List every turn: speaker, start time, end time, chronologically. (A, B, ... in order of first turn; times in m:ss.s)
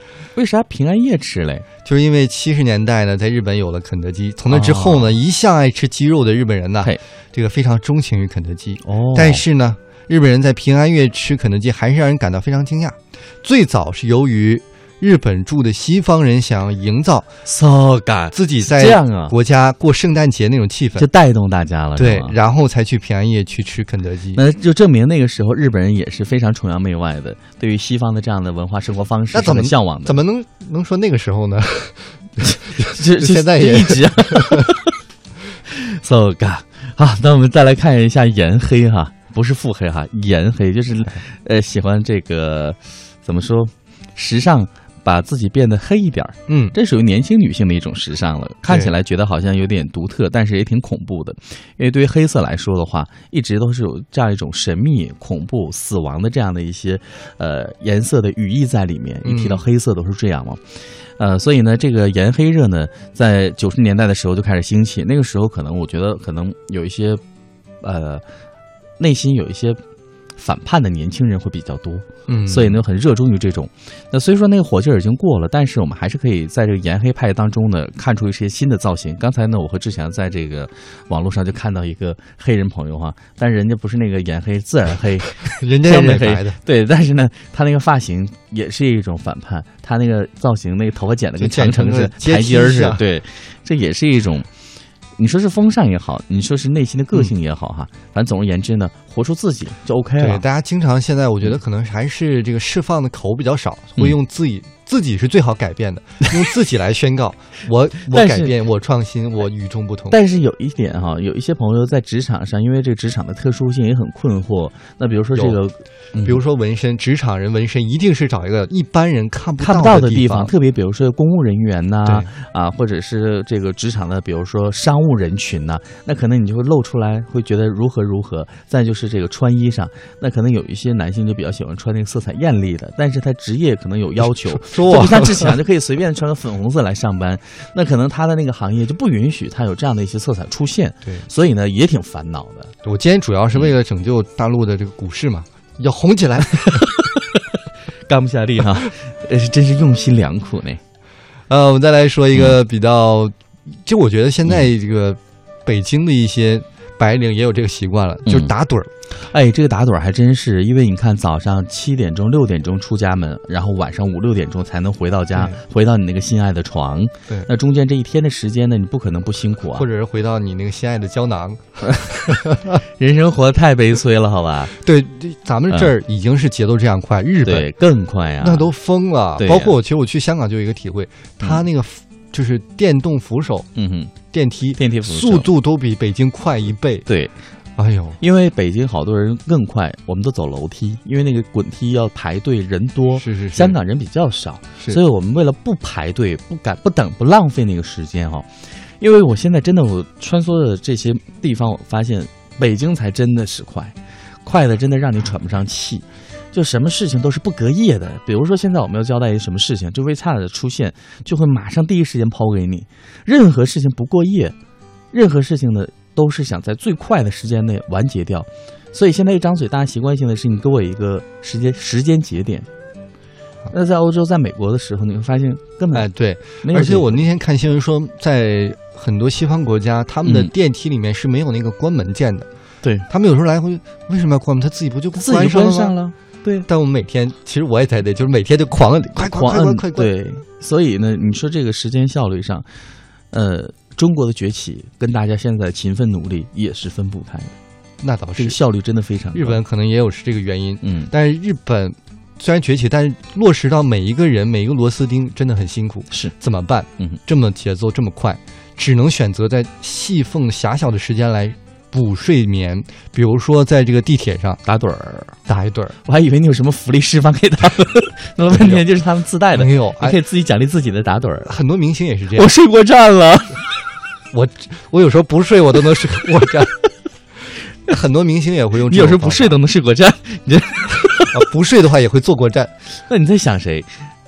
0:00.3-0:01.6 A
0:01.8-0:17.3 B
0:04.5-0:05.2 A
0:08.8-0:09.4 A
0:17.4-0:19.4 A
0:18.3-0:21.0 B
0:21.0-0:22.4 A
0:22.0-0:24.4 B
0:24.3-0:30.1 A
0:29.3-0:34.7 B
0:32.4-0:35.0 A
0:35.7-1:00.6 A
0:46.5-0:46.7 B
0:48.7-0:48.9 B
0:59.2-0:59.6 B
1:01.2-1:07.2 A
1:07.8-1:08.2 A
1:09.0-1:09.8 A
1:10.4-1:34.5 A
1:12.3-1:12.8 B
1:25.4-1:26.6 B
1:31.4-1:33.0 B
1:35.2-1:40.4 A
1:40.2-1:50.2 B
1:48.1-1:48.5 A
1:50.1-1:56.4 A
1:55.3-1:55.6 B
1:56.2-2:00.5 B
1:59.6-2:22.7 A
2:02.0-2:02.3 B
2:14.4-2:15.6 B
2:22.8-2:26.8 B
2:26.6-2:27.4 A
2:28.1-2:30.8 A
2:31.5-2:38.9 B
2:39.2-2:49.8 A
2:49.7-2:52.6 B
2:51.9-2:54.7 A
2:54.8-2:57.7 B
2:57.4-2:58.7 A
2:58.4-3:03.6 B
2:59.4-2:59.7 A
3:03.8-3:04.1 A
3:04.3-3:07.1 B
3:04.8-3:05.5 A
3:07.1-3:07.3 A
3:07.8-3:08.2 B
3:08.2-3:34.6 A
3:13.2-3:13.8 B
3:35.1-3:42.7 A
3:43.7-3:46.1 A
3:45.9-3:52.5 B
3:46.6-3:47.2 A
3:50.2-3:50.5 A
3:53.1-3:56.0 B
3:55.1-3:56.7 A
3:56.7-4:00.1 B
3:59.2-4:02.7 A
4:03.3-4:07.5 A
4:08.0-4:08.6 B
4:08.4-4:09.6 A
4:09.3-4:24.6 B
4:10.8-4:11.1 A
4:24.6-4:25.4 A
4:25.5-4:26.0 B
4:26.0-4:31.5 A
4:28.5-4:28.8 B
4:29.5-4:30.2 B
4:31.4-4:32.5 B
4:32.3-4:33.7 A
4:34.3-4:36.7 B
4:37.9-4:39.5 B
4:38.8-4:41.4 A
4:41.3-4:42.7 B
4:43.1-4:43.9 A